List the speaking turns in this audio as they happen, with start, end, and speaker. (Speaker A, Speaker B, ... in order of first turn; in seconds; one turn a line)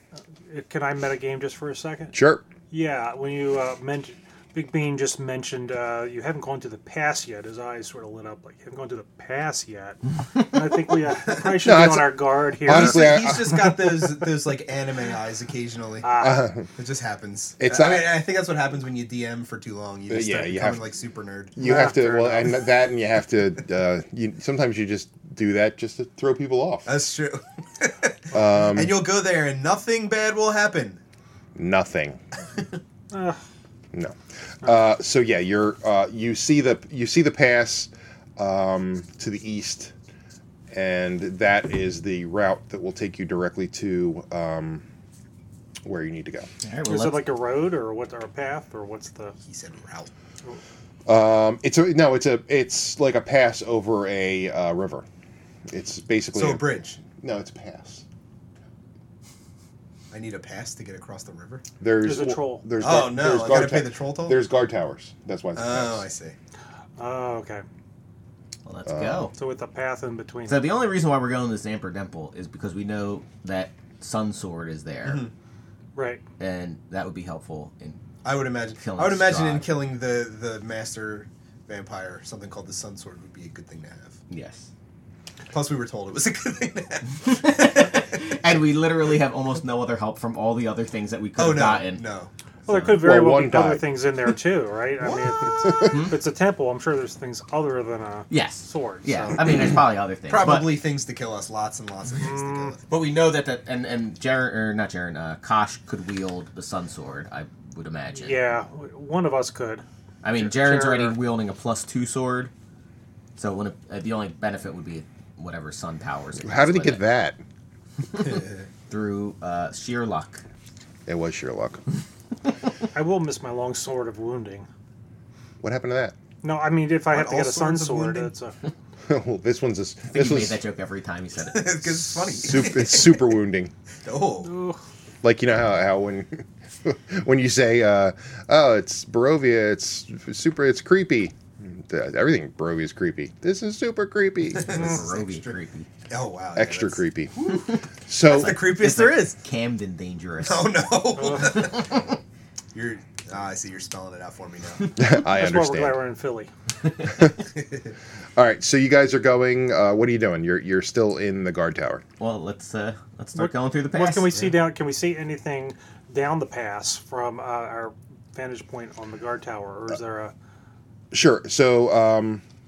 Speaker A: 0.5-2.1
Speaker B: 2.1-2.4
Speaker A: 2.7-13.1
Speaker B: 11.6-13.9
Speaker C: 12.7-21.7
Speaker A: 16.0-16.4
Speaker B: 16.2-16.7
Speaker B: 17.6-18.1
Speaker B: 20.1-20.9
Speaker B: 21.6-26.9
Speaker A: 21.6-22.6
Speaker C: 26.9-31.0
Speaker B: 28.3-29.0
Speaker B: 31.5-32.2
Speaker A: 33.1-33.4
Speaker B: 33.9-39.9
Speaker B: 40.7-44.8
Speaker B: 45.8-46.5
Speaker D: 46.6-47.3
Speaker A: 46.9-49.3
Speaker C: 49.4-50.1
Speaker B: 51.0-55.0
Speaker B: 55.7-58.0
Speaker C: 56.3-57.0
Speaker C: 60.1-61.6
Speaker B: 61.8-66.0
Speaker A: 62.0-62.7
Speaker C: 62.8-64.4
Speaker C: 65.5-66.3
Speaker A: 67.0-67.6
Speaker D: 68.7-69.3
Speaker B: 68.8-69.3
Speaker A: 69.3-70.7
Speaker D: 70.5-75.2
Speaker C: 75.0-75.3
Speaker A: 75.9-76.2
Speaker D: 76.4-78.0
Speaker C: 78.2-84.2
Speaker D: 78.8-79.7
Speaker D: 84.3-84.7
Speaker C: 85.5-87.9
Speaker D: 87.2-92.0
Speaker C: 91.4-92.3
Speaker A: 92.7-99.7
Speaker B: 92.7-93.8
Speaker C: 95.0-95.3
Speaker B: 95.7-96.0
Speaker D: 95.8-96.1
Speaker D: 98.3-100.8
Speaker C: 100.3-102.9
Speaker A: 102.2-102.7
Speaker D: 102.9-108.5
Speaker A: 108.1-111.2
Speaker D: 110.2-112.5
Speaker D: 113.3-117.0
Speaker B: 116.4-117.4
Speaker D: 118.1-120.4
Speaker C: 118.2-118.6
Speaker B: 121.0-121.8
Speaker A: 122.9-124.7
Speaker B: 125.6-126.1
Speaker A: 126.4-128.5
Speaker C: 127.1-128.3
Speaker B: 129.1-130.6
Speaker D: 130.1-132.4
Speaker C: 131.4-133.4
Speaker B: 132.4-133.7
Speaker C: 134.0-134.6
Speaker A: 134.4-134.8
Speaker B: 135.2-144.9
Speaker C: 144.5-145.6
Speaker D: 144.5-145.9
Speaker C: 146.1-147.0
Speaker B: 146.5-147.5
Speaker B: 148.1-148.7
Speaker C: 148.2-149.4
Speaker D: 148.3-151.8
Speaker C: 150.4-152.1
Speaker A: 151.2-151.7
Speaker C: 152.7-155.0
Speaker B: 154.9-156.0
Speaker A: 155.2-156.5
Speaker B: 158.3-162.0
Speaker D: 162.2-164.5
Speaker A: 163.4-170.3
Speaker B: 171.1-172.4